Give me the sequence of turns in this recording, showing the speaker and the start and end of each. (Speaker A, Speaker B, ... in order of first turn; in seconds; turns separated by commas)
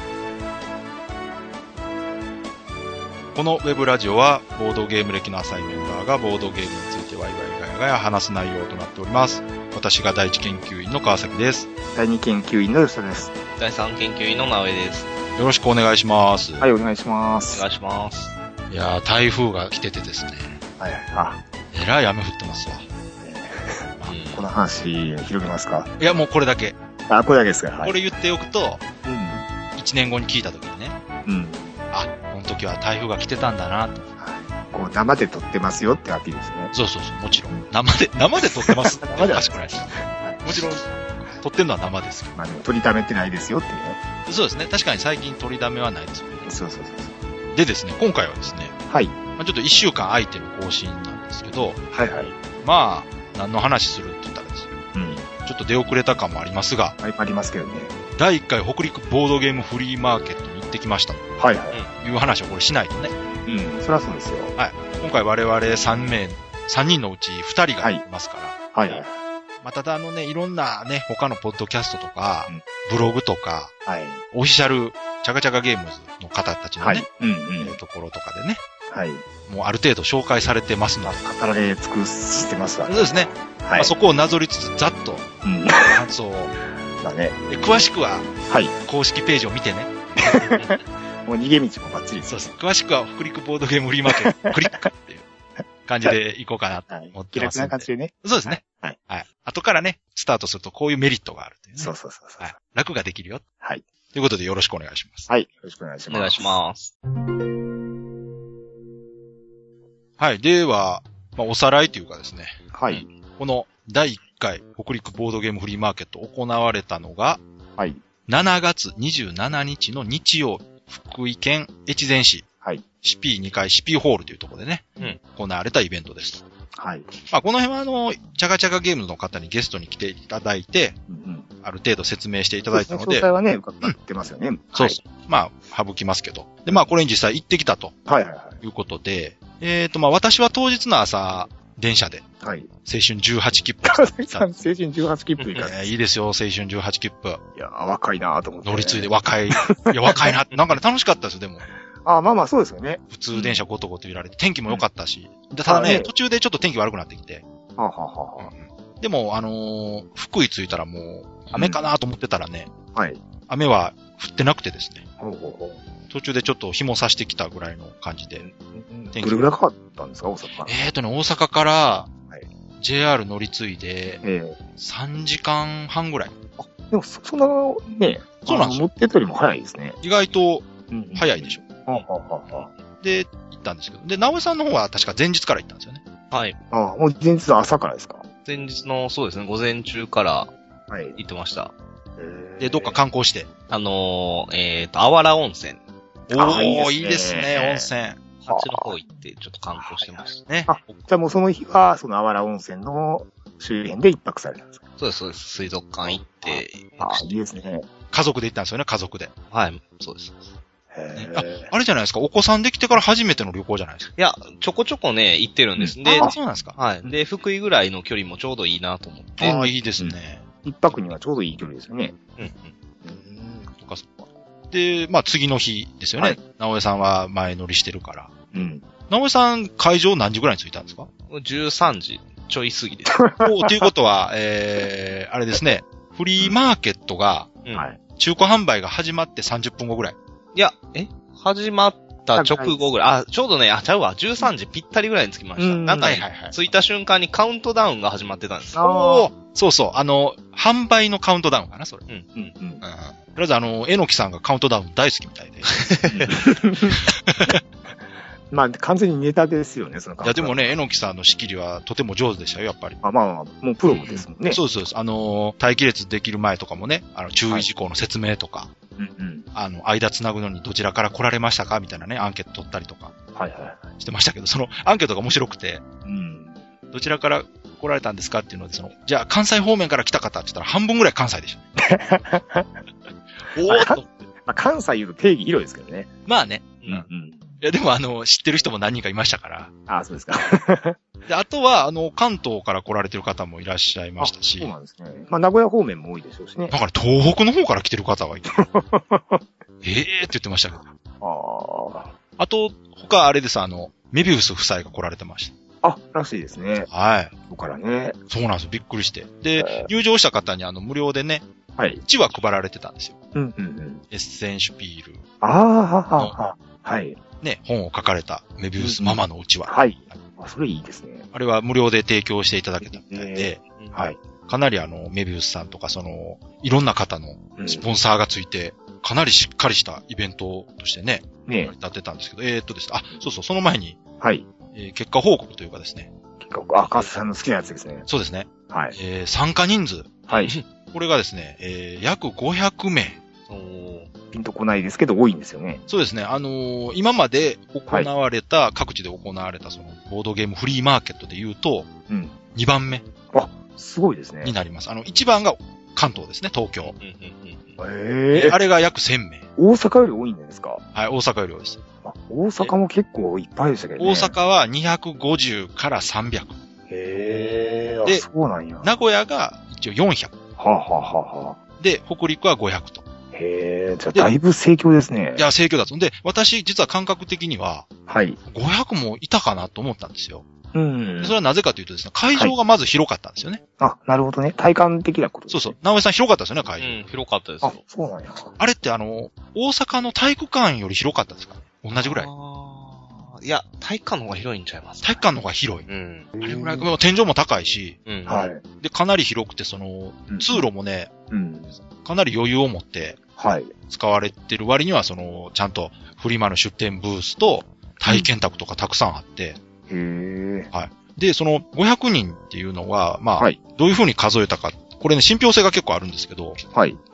Speaker A: 3.4-11.7, Speaker B: 11.9-13.3, Speaker C: 13.6-15.1, Speaker A: 15.4-16.6, Speaker B: 16.6-17.6, Speaker C: 17.5-18.4, Speaker A: 18.7-20.6, Speaker B: 20.8-21.4, Speaker A: 21.7-22.9, Speaker B: 23.2-25.9, Speaker C: 24.1-24.5, Speaker A: 26.0-26.8, Speaker B: 27.1-28.0, Speaker A: 27.8-28.8, Speaker B: 29.1-29.5, Speaker A: 29.8-31.0, Speaker B: 31.3-31.8, Speaker A: 31.9-34.1, Speaker B: 34.2-36.7, Speaker A: 36.7-40.9, Speaker B: 38.4-40.4, Speaker A: 41.4-42.3, Speaker B: 42.4-44.0, Speaker A: 44.3-46.5, Speaker B: 46.5-47.1, Speaker A: 47.5-48.7, Speaker B: 48.9-49.2, Speaker A: 49.4-51.8, Speaker B: 51.9-52.3, Speaker A: 52.6-54.7, Speaker B: 54.9-55.3, Speaker A: 55.4-57.0, Speaker B: 57.0-57.9, Speaker A: 58.2-61.2, Speaker B: 61.4-61.9, Speaker A: 62.0-63.1, Speaker B: 63.5-64.5, Speaker A: 64.6-68.6, Speaker B: 68.7-69.1, Speaker A: 69.6-73.7, Speaker B: 73.9-74.2, Speaker A: 74.3-77.1, Speaker B: 76.8-77.8, Speaker A: 77.6-78.6, Speaker B: 78.9-79.2, Speaker A: 79.5-81.2, Speaker B: 81.0-83.9, Speaker A: 82.9-85.3, Speaker B: 85.4-86.0, Speaker A: 85.9-86.5, Speaker B: 87.0-87.4, Speaker A: 87.5-88.3, Speaker B: 88.5-88.7, Speaker A: 88.8-90.4, Speaker B: 90.2-92.5, Speaker A: 92.3-95.3, Speaker B: 94.1-94.9, Speaker A: 95.9-103.4, Speaker B: 96.9-99.0, Speaker B: 101.8-102.5, Speaker A: 104.1-105.3, Speaker B: 105.3-106.6, Speaker C: 106.1-106.9, Speaker A: 110.2-112.6, Speaker B: 112.7-113.1, Speaker A: 113.4-117.4, Speaker A: 118.3-122.5, Speaker A: 123.0-126.4, Speaker B: 126.8-127.1, Speaker A: 127.3-131.0, Speaker B: 131.1-131.5, Speaker A: 131.6-133.3, Speaker B: 132.7-135.0, Speaker A: 134.7-137.9, Speaker B: 138.1-138.6, Speaker A: 138.6-142.2, Speaker B: 142.4-142.7, Speaker A: 142.9-144.5, Speaker B: 143.8-145.9, Speaker A: 145.6-147.4, Speaker B: 147.6-150.3, Speaker A: 148.7-151.6, Speaker B: 152.0-153.6, Speaker A: 153.1-157.4, Speaker B: 155.7-156.1, Speaker B: 157.8-158.5, Speaker A: 158.4-162.7, Speaker B: 161.5-161.9, Speaker B: 162.9-163.2, Speaker A: 163.5-165.1, Speaker B: 165.2-165.8, Speaker A: 166.1-168.5, Speaker B: 168.4-170.7, Speaker A: 169.1-169.5, Speaker A: 170.7-172.1, Speaker A: 172.8-174.2, Speaker B: 174.2-174.6, Speaker A: 174.8-176.4, Speaker B: 176.6-180.0, Speaker A: 178.4-178.8, Speaker A: 180.0-181.6, Speaker B: 180.9-182.7, Speaker A: 183.0-186.0, Speaker C: 186.3-186.6, Speaker B: 186.7-188.2, Speaker C: 188.5-190.5, Speaker B: 190.9-191.2, Speaker C: 191.2-191.7, Speaker B: 192.2-193.0, Speaker A: 192.6-193.5, Speaker C: 193.7-195.8, Speaker A: 196.3-198.2, Speaker B: 196.3-197.9, Speaker C: 198.4-200.9, Speaker B: 198.5-198.9, Speaker B: 199.8-204.8, Speaker C: 205.0-207.4, Speaker B: 206.1-207.9, Speaker A: 208.1-209.3, Speaker C: 209.5-210.5, Speaker B: 210.9-211.7, Speaker A: 211.2-214.1, Speaker C: 214.2-219.6, Speaker B: 215.8-216.4, Speaker A: 216.0-216.8, Speaker B: 219.4-222.2, Speaker A: 219.4-220.4, Speaker C: 222.4-222.7, Speaker B: 223.0-223.7, Speaker A: 223.7-224.1, Speaker A: 224.7-228.3, Speaker B: 228.5-228.8, Speaker A: 229.1-231.1, Speaker C: 231.3-233.3, Speaker B: 233.2-233.4, Speaker A: 233.4-237.6, Speaker B: 237.7-238.0, Speaker A: 238.2-240.2, Speaker C: 240.6-248.8, Speaker B: 242.3-242.8, Speaker B: 245.6-246.2, Speaker A: 246.0-246.6, Speaker B: 248.8-249.3, Speaker A: 248.8-252.0, Speaker C: 252.1-252.5, Speaker B: 252.4-252.8, Speaker A: 252.8-255.8, Speaker C: 255.7-256.3, Speaker B: 256.1-257.0, Speaker A: 257.0-257.6, Speaker B: 258.5-260.7, Speaker A: 260.2-263.0, Speaker B: 263.0-264.6, Speaker C: 263.9-264.2, Speaker A: 264.4-268.7, Speaker B: 269.0-269.5, Speaker A: 269.6-273.1, Speaker B: 273.4-273.9, Speaker A: 274.0-275.8, Speaker B: 276.1-276.6, Speaker A: 276.9-281.6, Speaker B: 281.8-282.7, Speaker A: 283.6-284.3, Speaker B: 283.7-286.1, Speaker A: 286.3-287.1, Speaker B: 287.0-287.5, Speaker A: 287.6-289.7, Speaker B: 289.9-291.0, Speaker A: 291.3-294.7, Speaker B: 294.2-296.7, Speaker A: 296.7-298.6, Speaker B: 298.5-299.4, Speaker A: 299.8-300.8, Speaker B: 301.2-302.1, Speaker A: 302.4-305.5, Speaker B: 305.8-306.9, Speaker A: 306.9-307.3, Speaker B: 307.5-308.2, Speaker A: 308.3-311.4, Speaker B: 309.6-309.9, Speaker B: 311.8-312.0, Speaker A: 312.0-313.2, Speaker B: 313.4-314.0, Speaker A: 314.1-315.2, Speaker B: 315.4-317.2, Speaker A: 317.4-320.2, Speaker B: 318.8-321.3, Speaker A: 321.3-323.6, Speaker B: 322.8-324.2, Speaker C: 323.8-324.0, Speaker A: 324.5-334.0, Speaker B: 327.6-327.9, Speaker B: 331.5-331.7, Speaker B: 334.2-334.5, Speaker A: 334.7-336.1, Speaker B: 336.4-338.1, Speaker A: 338.1-340.2, Speaker B: 338.7-339.0, Speaker B: 340.3-340.6, Speaker C: 340.3-340.6, Speaker A: 340.9-343.2, Speaker C: 343.5-344.1, Speaker B: 344.3-345.8, Speaker A: 345.9-351.9, Speaker B: 352.1-352.4, Speaker A: 352.6-353.1, Speaker B: 353.3-354.5, Speaker A: 354.4-356.9, Speaker C: 356.8-357.8, Speaker B: 357.8-358.6, Speaker A: 358.3-359.5, Speaker B: 359.6-360.8, Speaker A: 360.9-361.8, Speaker B: 362.0-364.3, Speaker A: 364.0-366.6, Speaker B: 366.9-368.9, Speaker A: 368.8-370.3, Speaker B: 370.6-371.6, Speaker A: 371.8-373.0, Speaker B: 373.3-375.5, Speaker A: 375.4-377.9, Speaker B: 378.1-378.4, Speaker A: 378.5-380.4, Speaker B: 380.7-381.4, Speaker A: 381.2-383.6, Speaker B: 383.8-385.8, Speaker A: 385.5-387.1, Speaker C: 386.8-387.8, Speaker B: 387.6-388.5, Speaker A: 388.6-392.3, Speaker C: 391.9-395.2, Speaker A: 395.0-395.9, Speaker C: 395.9-396.3, Speaker B: 396.4-396.9, Speaker A: 396.4-398.0, Speaker C: 398.1-398.5, Speaker B: 398.3-398.6, Speaker A: 398.8-401.1, Speaker B: 400.3-400.7, Speaker B: 401.3-401.8, Speaker A: 401.9-403.2, Speaker B: 403.4-403.7, Speaker A: 403.9-409.6, Speaker B: 409.9-410.7, Speaker A: 410.7-416.6, Speaker B: 416.7-417.0